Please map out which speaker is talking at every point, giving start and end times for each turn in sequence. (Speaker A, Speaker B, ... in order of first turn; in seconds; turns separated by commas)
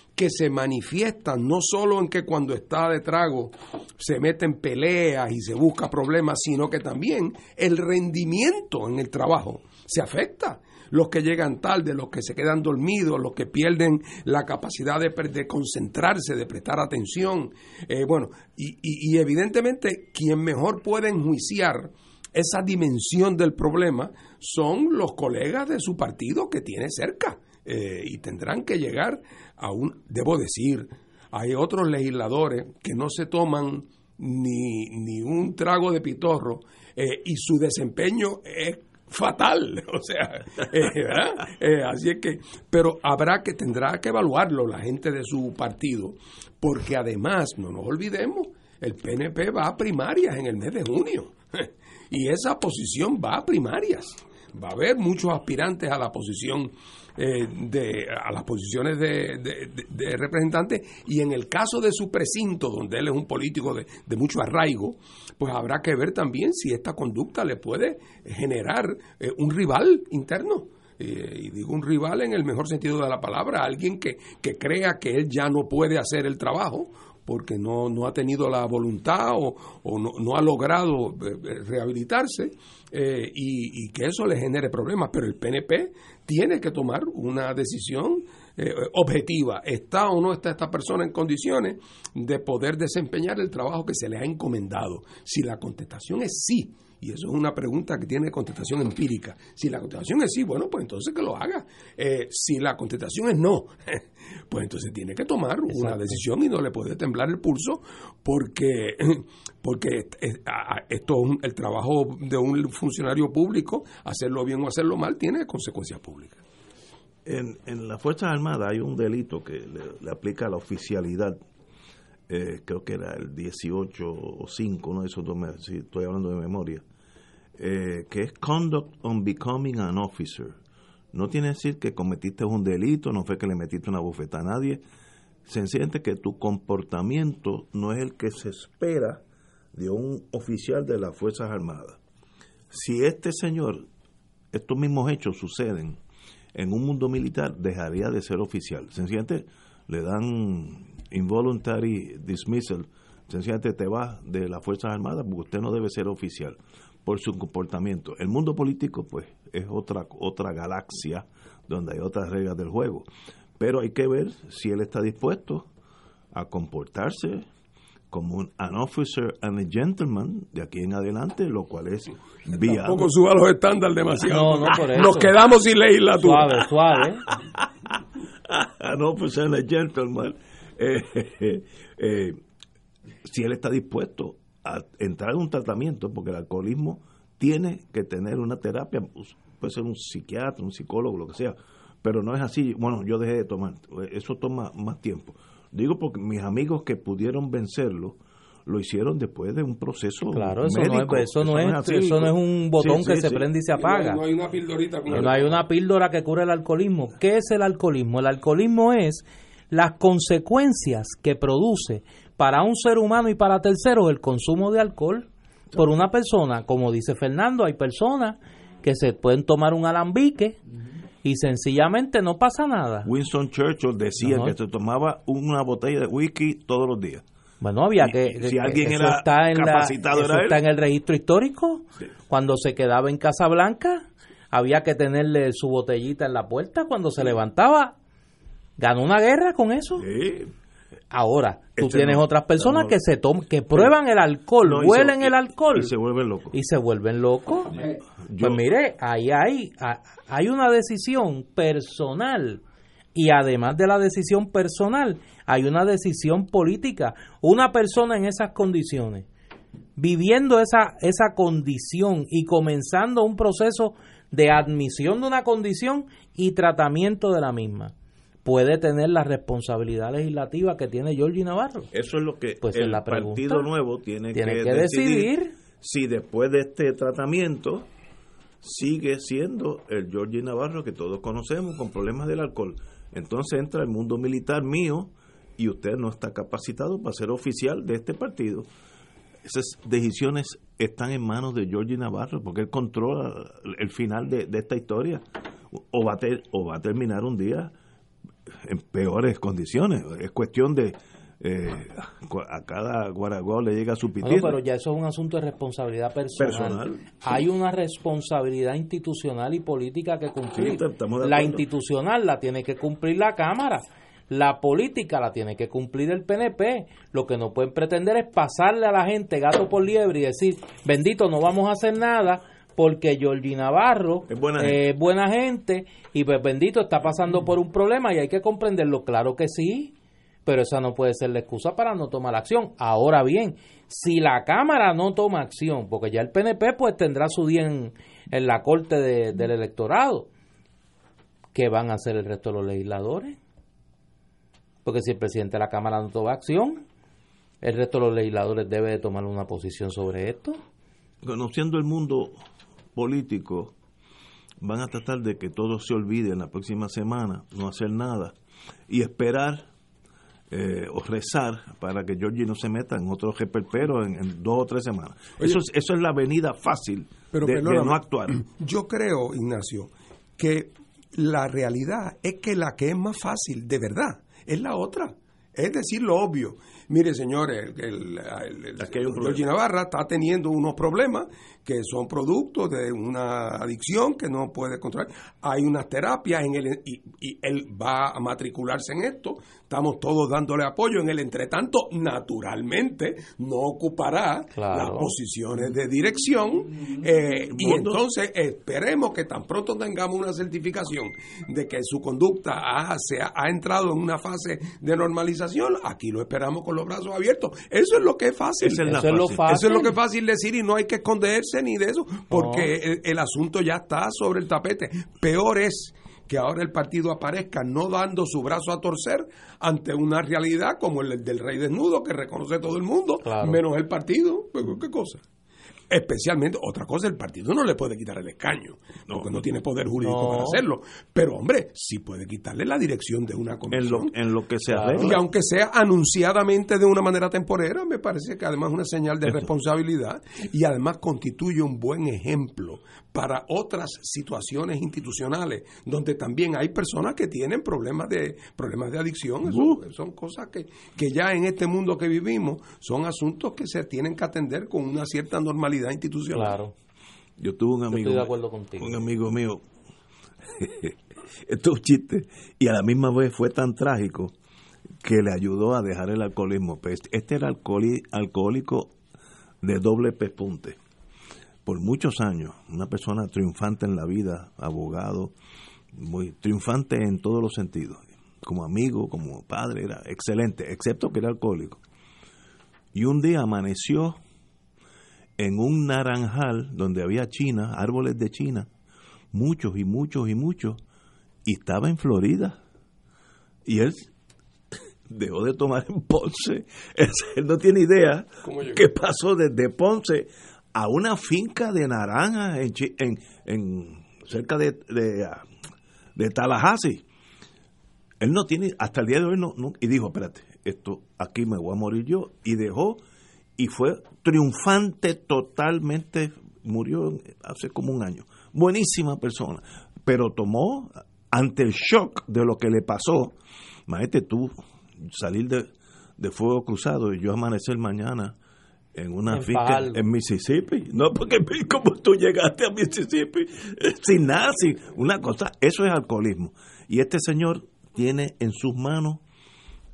Speaker A: 0.2-116.4, Speaker B: 105.7-106.2, Speaker C: 117.2-121.4, Speaker C: 122.3-126.8, Speaker C: 127.6-130.6, Speaker C: 131.1-134.8, Speaker C: 135.5-139.2, Speaker C: 139.7-142.0, Speaker C: 142.7-143.8, Speaker C: 144.5-146.0, Speaker C: 146.6-163.1, Speaker C: 163.6-165.7, Speaker C: 166.3-167.5, Speaker C: 168.1-173.1, Speaker A: 172.5-176.7, Speaker B: 174.3-175.3, Speaker B: 176.2-177.2, Speaker C: 178.5-182.4, Speaker C: 183.2-203.5, Speaker B: 200.3-204.2, Speaker A: 203.8-205.6, Speaker B: 205.1-220.6, Speaker B: 221.2-223.1, Speaker C: 223.1-227.2, Speaker B: 224.2-224.6, Speaker B: 227.6-237.9, Speaker C: 228.0-230.6, Speaker B: 238.8-240.1, Speaker C: 240.0-240.5, Speaker B: 241.1-245.9, Speaker C: 241.8-243.0, Speaker C: 244.6-246.6, Speaker B: 246.5-252.6, Speaker C: 247.8-248.6, Speaker B: 253.2-259.3, Speaker B: 260.0-267.9, Speaker B: 268.4-271.9, Speaker C: 271.9-277.9, Speaker B: 272.6-273.7, Speaker B: 274.3-275.5, Speaker C: 278.6-288.7, Speaker C: 289.4-297.7, Speaker C: 298.6-304.6, Speaker B: 304.2-329.9, Speaker C: 306.4-307.0, Speaker C: 310.5-311.6, Speaker C: 324.3-324.8, Speaker B: 330.5-340.3, Speaker B: 341.5-343.4, Speaker B: 344.9-346.8, Speaker B: 347.6-350.6, Speaker C: 351.2-352.4, Speaker C: 352.9-353.8, Speaker C: 354.6-358.4, Speaker C: 358.9-359.7, Speaker C: 360.5-368.4, Speaker A: 367.3-408.9, Speaker C: 378.8-379.4, Speaker B: 394.6-395.1, Speaker C: 397.5-398.0, Speaker C: 408.6-409.4, Speaker B: 408.9-409.9, Speaker A: 409.5-425.2, Speaker B: 412.3-412.7, Speaker B: 423.2-423.6, Speaker A: 425.9-434.1, Speaker C: 429.1-429.4, Speaker B: 430.0-430.6, Speaker C: 433.7-435.2, Speaker B: 434.7-435.2, Speaker A: 435.0-456.6, Speaker C: 449.4-449.8, Speaker B: 456.3-456.7, Speaker C: 457.4-459.6, Speaker B: 457.9-459.0, Speaker C: 460.5-464.3, Speaker C: 465.0-468.9, Speaker C: 469.6-470.8, Speaker C: 471.7-475.4, Speaker C: 475.9-481.8, Speaker C: 482.9-484.2, Speaker C: 485.4-488.7, Speaker C: 489.3-490.8, Speaker C: 491.4-492.6, Speaker C: 493.7-494.1, Speaker C: 495.1-505.4, Speaker A: 498.4-498.8, Speaker C: 506.2-507.0, Speaker C: 508.2-513.0, Speaker C: 513.6-523.4, Speaker C: 523.9-528.4, Speaker C: 529.0-539.2, Speaker B: 529.3-530.0